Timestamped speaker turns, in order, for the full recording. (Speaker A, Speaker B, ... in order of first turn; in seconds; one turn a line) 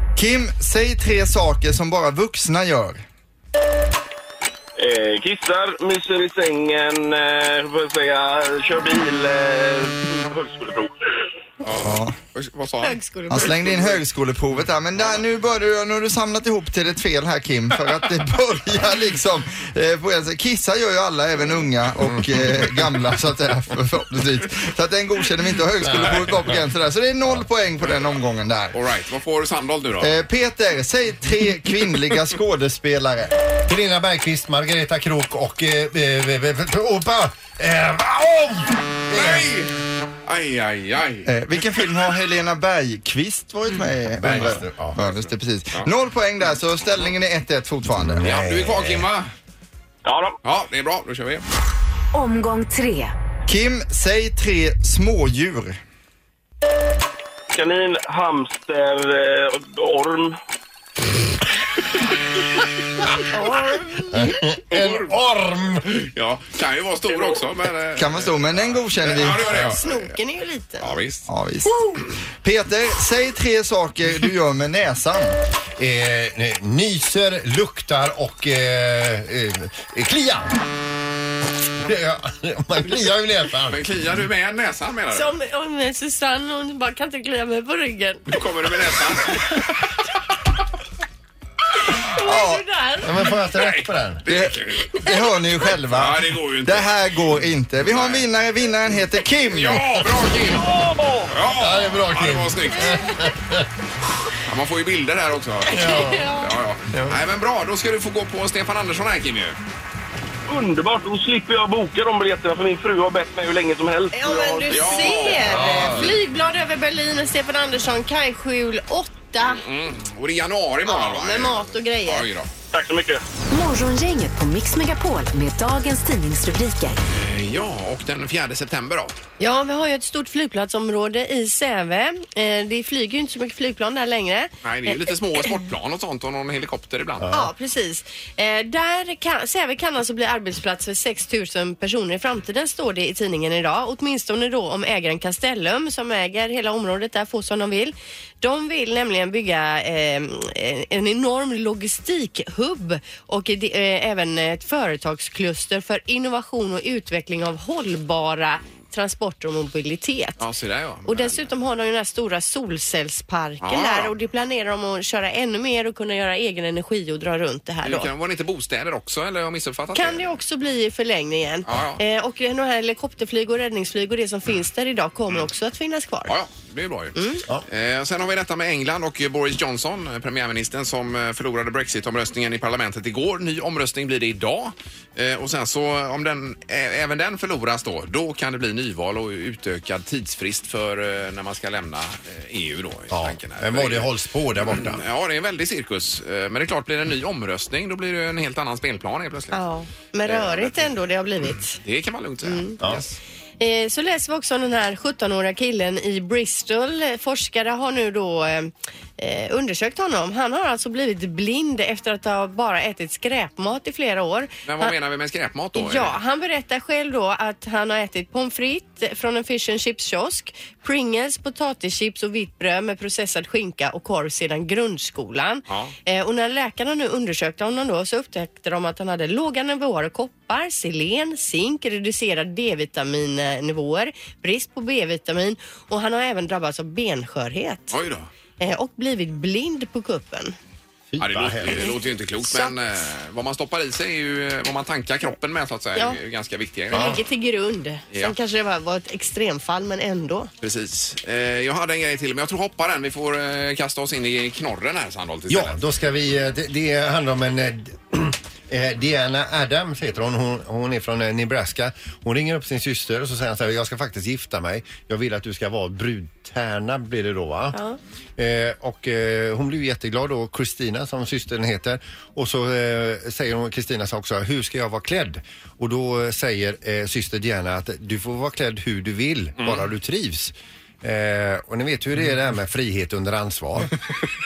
Speaker A: 0.2-3.0
Speaker B: 4.8-10.9
Speaker C: 11.6-13.5
Speaker A: 11.8-12.2
Speaker D: 12.8-13.9
Speaker A: 13.3-28.8
Speaker E: 25.8-26.6
Speaker C: 28.7-30.2
Speaker A: 30.0-33.3
Speaker E: 33.7-39.5
Speaker C: 39.1-41.3
Speaker A: 41.3-48.2
Speaker E: 44.2-45.0
Speaker E: 48.0-49.1
Speaker C: 48.2-49.3
Speaker B: 50.0-50.4
Speaker C: 50.4-51.5
Speaker F: 52.1-53.1
Speaker A: 53.5-55.8
Speaker B: 57.5-60.4
Speaker D: 63.3-64.3
Speaker E: 64.1-65.9
Speaker C: 64.7-65.1
Speaker C: 65.8-70.1
Speaker A: 68.0-69.6
Speaker D: 69.4-71.0
Speaker C: 70.8-71.3
Speaker A: 71.3-71.8
Speaker A: 72.4-75.3
Speaker E: 75.8-80.6
Speaker E: 81.8-83.8
Speaker C: 83.7-85.3
Speaker D: 85.1-88.4
Speaker C: 88.3-89.9
Speaker D: 91.9-93.4
Speaker A: 92.2-92.6
Speaker E: 93.0-94.2
Speaker C: 93.5-94.9
Speaker A: 94.3-99.9
Speaker C: 95.9-96.9
Speaker C: 97.8-98.3
Speaker C: 99.5-100.7
Speaker B: 100.6-101.3
Speaker C: 101.3-103.1
Speaker E: 101.5-103.7
Speaker C: 104.5-109.6
Speaker E: 105.7-106.3
Speaker D: 105.7-106.5
Speaker E: 106.9-107.2
Speaker B: 110.5-115.6
Speaker D: 114.1-119.6
Speaker C: 114.7-116.2
Speaker E: 115.6-116.0
Speaker C: 119.4-122.5
Speaker D: 120.9-122.3
Speaker B: 122.7-123.2
Speaker F: 123.5-127.0
Speaker C: 127.1-129.2
Speaker D: 129.4-135.4
Speaker C: 134.6-137.3
Speaker E: 137.2-137.5
Speaker D: 137.3-160.4
Speaker C: 160.4-161.5
Speaker D: 161.1-168.1
Speaker C: 163.6-164.1
Speaker C: 167.8-170.2
Speaker D: 169.9-176.3
Speaker C: 171.7-172.0
Speaker C: 176.3-194.1
Speaker D: 177.2-177.4
Speaker E: 193.1-195.0
Speaker C: 194.7-199.6
Speaker D: 199.5-201.8
Speaker C: 200.2-200.9
Speaker C: 201.8-203.2
Speaker D: 202.4-202.8
Speaker D: 203.6-214.9
Speaker C: 214.7-216.2
Speaker D: 215.8-238.0
Speaker C: 225.7-225.9
Speaker C: 237.9-238.3
Speaker D: 238.6-240.6
Speaker E: 241.1-241.9
Speaker C: 241.2-247.2
Speaker D: 242.4-242.7
Speaker D: 246.9-250.5
Speaker E: 246.9-247.2
Speaker C: 250.6-255.8
Speaker E: 255.5-267.8
Speaker D: 267.7-268.0
Speaker E: 268.4-283.9
Speaker C: 279.6-279.8